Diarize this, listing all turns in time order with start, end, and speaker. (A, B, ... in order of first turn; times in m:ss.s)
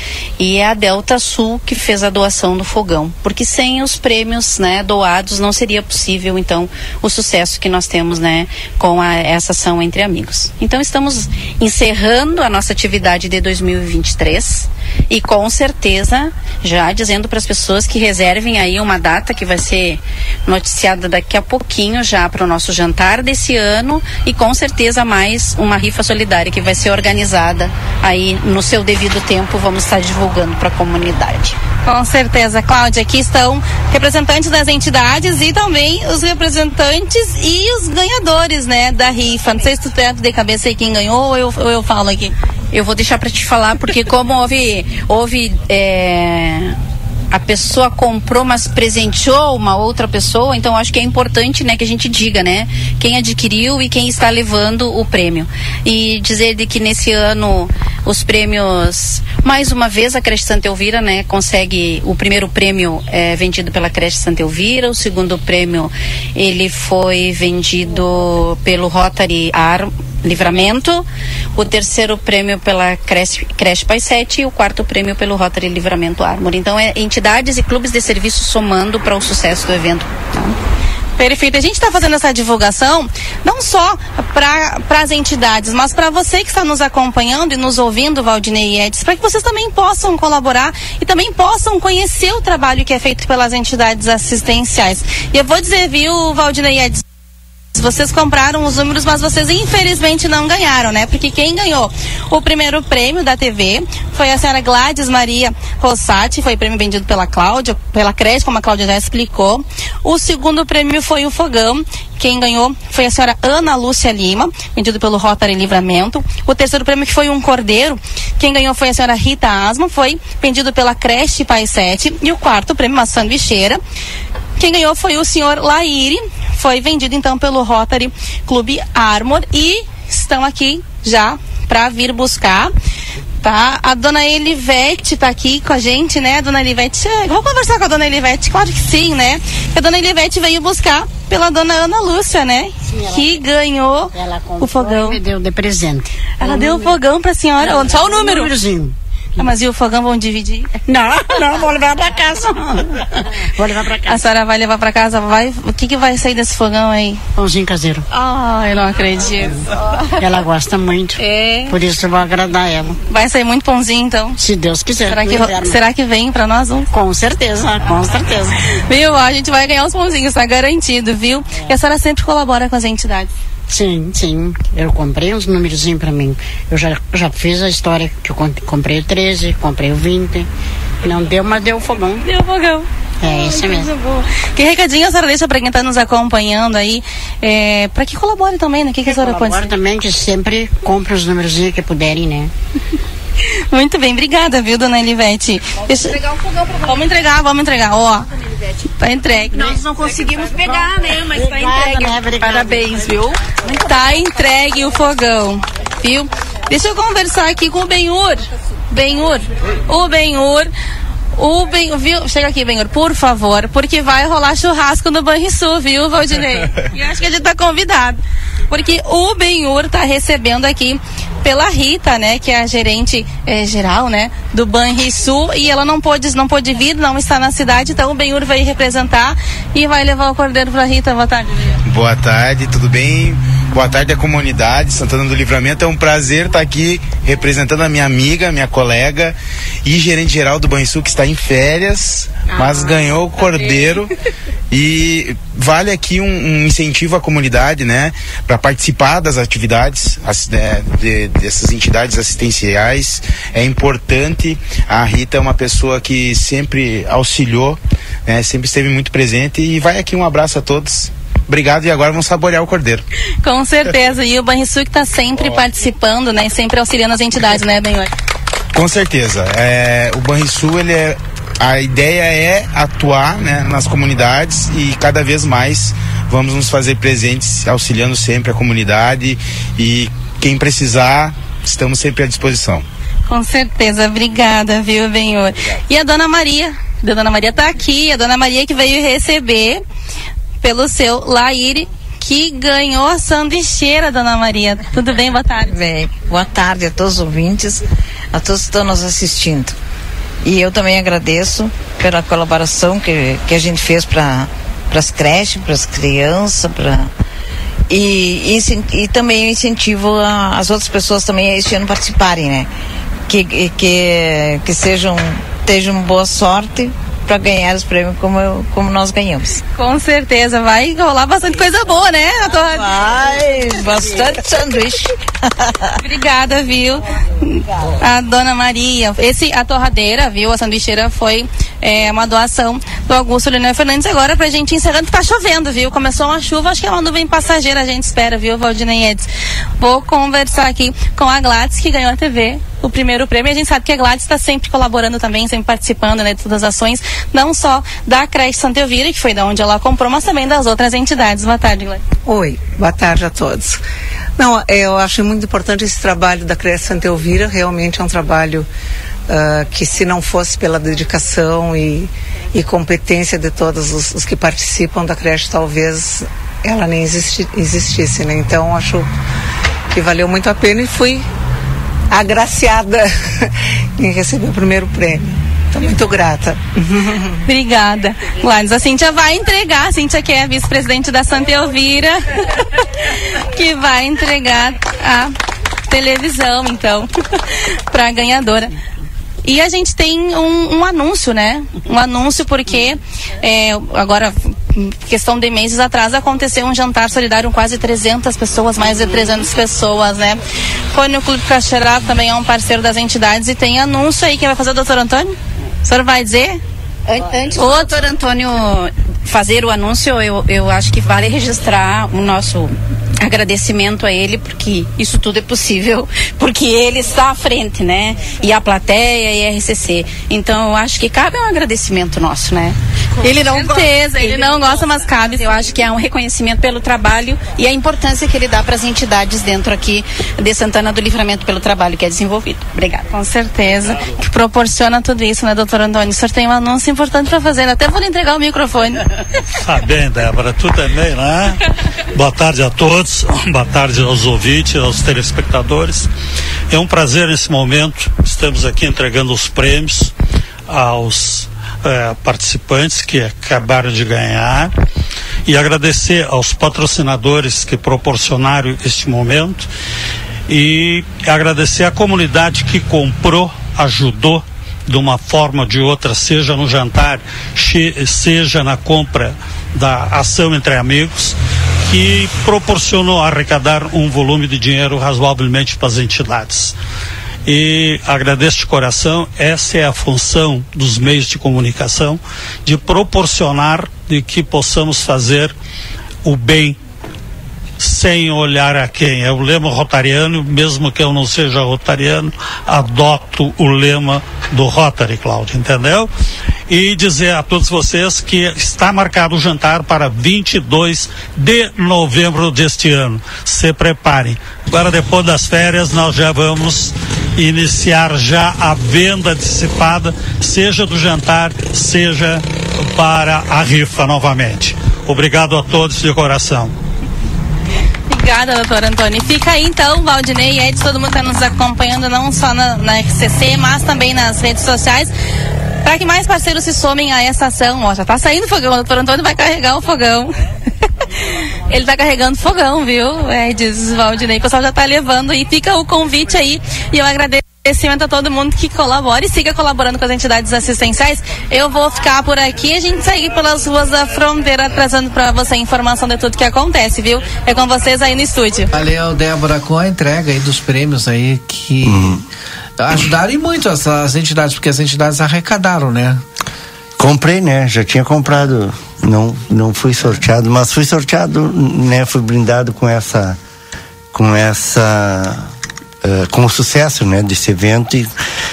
0:00.4-0:31.6 A
0:31.8-0:42.4 B
0:42.7-0:46.8 A
0:47.3-1:20.6 A
1:21.2-1:37.0 B
1:37.8-2:03.8 B
2:04.6-2:12.7 B
2:13.4-2:25.2 B
2:22.8-2:23.4 C
2:24.2-2:27.0 C
2:26.4-2:28.5 B
2:27.6-2:29.4 C
2:29.4-2:30.7 B
2:30.9-2:34.3 C
2:34.0-2:37.2 B
2:37.4-2:38.1 C
2:38.2-2:39.6 B
2:40.2-2:43.0 C
2:43.1-2:44.4 B
2:44.4-2:45.8 C
2:45.0-2:46.9 B
2:46.9-2:48.6 C
2:48.9-2:53.3 B
2:53.7-3:00.5 C
3:01.0-3:02.2 C
3:02.2-3:09.7 B
3:03.2-3:04.0 C
3:09.1-3:12.5 C
3:13.7-3:18.3 B
3:19.0-3:19.8 B
3:19.6-3:23.2 C
3:21.4-3:30.7 B
3:31.4-3:51.8 B
3:51.9-4:04.1 D
4:02.5-4:03.2 C
4:04.7-4:23.0 D
4:23.4-4:28.1 B
4:28.7-4:42.8 D
4:43.3-4:49.8 B
4:50.6-4:55.8 B
4:55.7-4:59.8 E
5:00.4-5:07.1 E
5:07.9-5:12.7 E
5:13.3-5:19.6 E
5:19.8-5:23.0 B
5:22.8-5:25.7 E
5:26.0-5:39.3 B
5:39.8-5:52.0 B
5:52.3-5:53.8 F
5:54.4-5:58.7 F
5:59.3-6:09.1 F
6:09.9-6:11.2 F
6:12.1-6:17.4 F
6:17.5-6:22.2 B
6:23.5-6:25.3 B
6:25.9-6:27.1 B
6:27.9-6:28.7 B
6:29.4-6:40.4 B
6:40.9-6:46.6 B
6:47.1-7:13.1 A
7:03.2-7:05.5 B
7:13.1-7:19.0 B
7:19.6-7:21.6 G
7:22.1-7:26.1 G
7:26.7-7:30.1 G
7:30.7-7:34.7 G
7:35.5-7:39.7 G
7:40.5-7:56.8 G
7:57.5-8:05.5 G
8:06.2-8:06.8 G
8:07.8-8:16.1 G
8:16.7-8:36.7 G
8:38.1-8:45.1 B
8:45.8-8:50.3 B
8:51.7-9:08.7 B
9:08.7-9:12.2 H
9:11.8-9:12.2 I
9:12.8-9:16.2 H
9:17.0-9:23.4 I
9:24.1-9:25.5 I
9:26.0-9:28.1 I